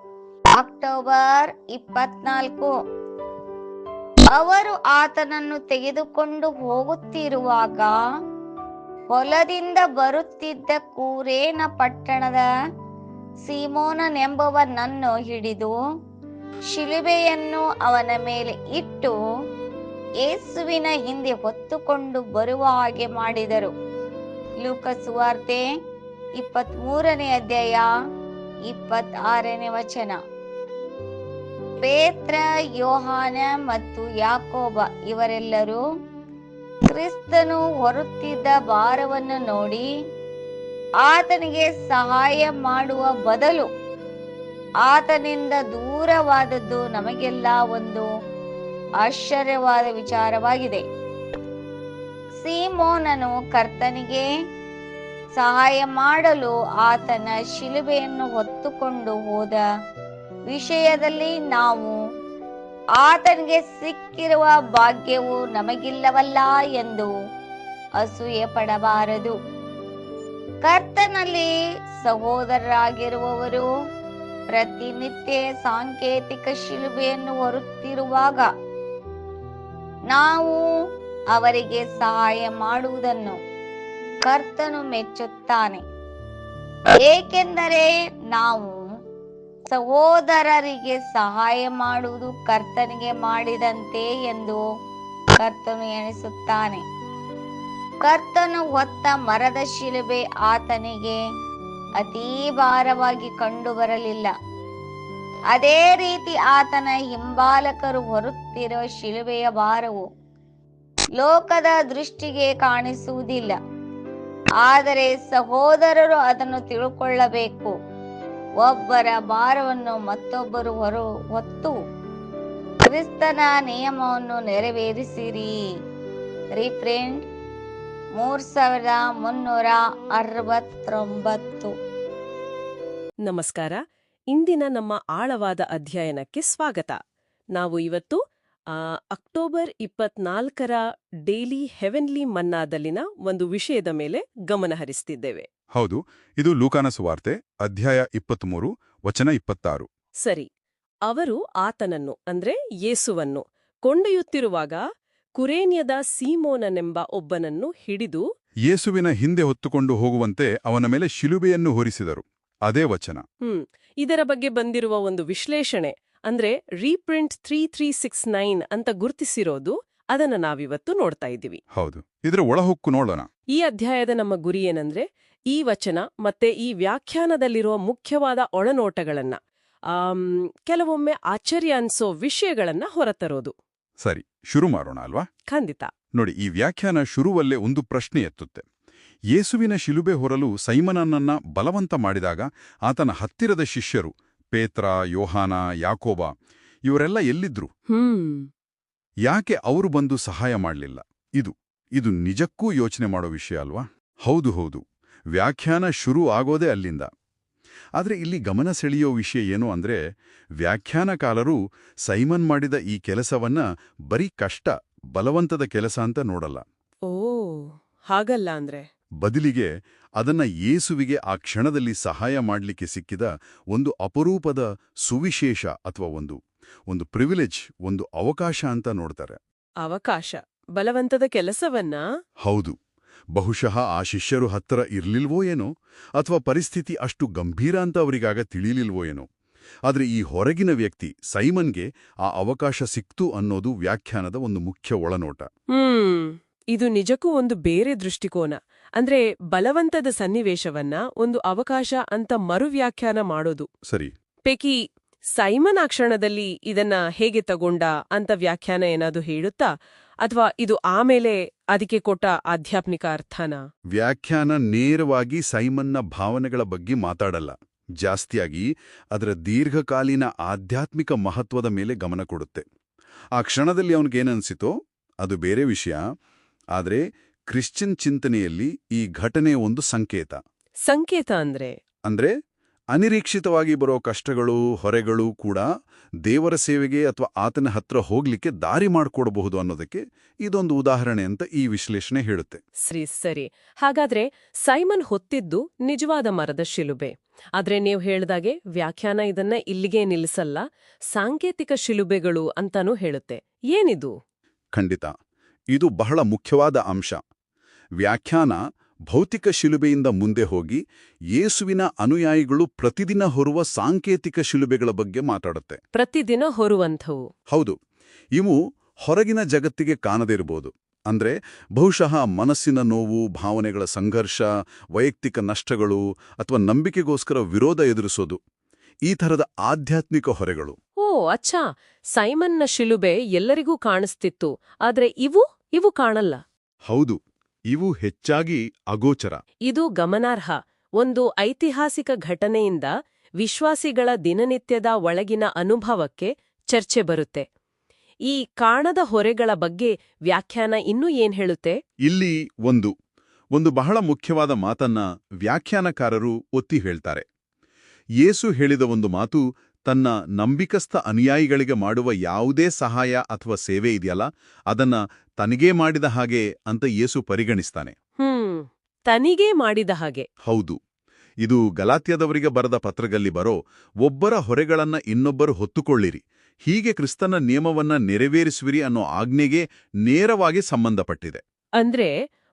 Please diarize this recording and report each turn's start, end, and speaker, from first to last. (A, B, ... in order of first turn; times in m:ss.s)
0:00.6-0:02.7 A
0:04.3-0:07.9 A
0:09.1-0:12.5 A
0:13.4-0:15.7 A
0:16.7-0:19.2 A
0:20.2-0:23.7 A
0:24.6-0:25.6 A
0:26.4-0:27.9 A
0:28.7-0:30.2 A
0:31.8-0:35.8 A
0:36.9-0:39.9 A
0:41.0-0:43.7 A
0:44.8-0:48.1 A
0:49.0-0:50.8 A
0:52.4-0:54.3 A
0:55.3-0:59.6 A
1:00.5-1:02.0 A
1:03.0-1:07.1 A
1:08.0-1:09.3 A
1:10.6-1:11.5 A
1:12.0-1:13.7 A
1:14.5-1:18.5 A
1:20.1-1:20.6 A
1:21.3-1:23.4 A
1:24.2-1:25.8 A
1:27.0-1:28.7 A
1:29.7-1:34.6 A
1:35.4-1:36.8 A
1:38.0-1:41.2 A
1:42.0-1:44.3 A
1:45.5-1:50.0 A
1:51.2-1:53.6 A
1:54.6-1:57.7 A
1:58.6-2:01.8 A
2:02.9-2:05.5 A
2:06.6-2:07.2 A
2:08.2-2:11.7 A
2:13.2-2:13.8 B
2:14.3-2:17.0 B
2:17.5-2:18.2 B
2:18.7-2:25.4 B
2:25.7-2:29.9 C
2:30.2-2:30.5 B
2:31.1-2:34.8 B
2:35.4-2:38.2 B
2:38.7-2:43.2 C
2:43.4-2:51.6 B
2:51.7-2:53.3 C
2:53.5-3:03.5 B
3:04.0-3:05.3 C
3:05.5-3:05.9 B
3:06.2-3:08.6 C
3:09.3-3:16.3 C
3:16.8-3:17.7 C
3:17.9-3:18.5 B
3:19.2-3:24.8 C
3:25.3-3:27.1 C
3:28.0-3:30.0 C
3:30.6-3:36.6 C
3:37.1-3:38.8 B
3:39.2-3:49.4 C
3:49.8-3:52.0 B
3:52.4-3:52.8 C
3:53.3-3:59.3 C
3:59.9-4:05.5 C
4:05.7-4:13.7 B
4:14.5-4:14.8 B
4:15.4-4:19.7 B
4:20.2-4:23.6 B
4:23.9-4:32.6 C
4:33.4-4:36.0 C
4:36.7-4:40.4 C
4:40.9-4:41.8 B
4:42.0-4:42.3 C
4:42.9-4:45.7 C
4:46.2-4:52.6 C
4:52.9-5:04.1 B
5:04.7-5:05.1 C
5:05.7-5:07.2 C
5:08.0-5:08.6 C
5:09.1-5:10.8 C
5:11.3-5:15.8 C
5:15.9-5:17.2 B
5:17.5-5:17.8 C
5:18.4-5:24.4 C
5:25.0-5:28.4 C
5:29.1-5:30.8 C
5:31.0-5:31.6 B
5:32.1-5:36.4 B
5:36.9-5:39.4 C
5:39.7-5:47.4 B
5:48.3-5:51.8 B
5:52.0-5:52.9 C
5:53.5-5:57.2 C
5:58.2-6:07.9 C
6:08.2-6:10.3 B
6:10.4-6:10.8 C
6:11.4-6:21.4 C
6:21.8-6:22.1 B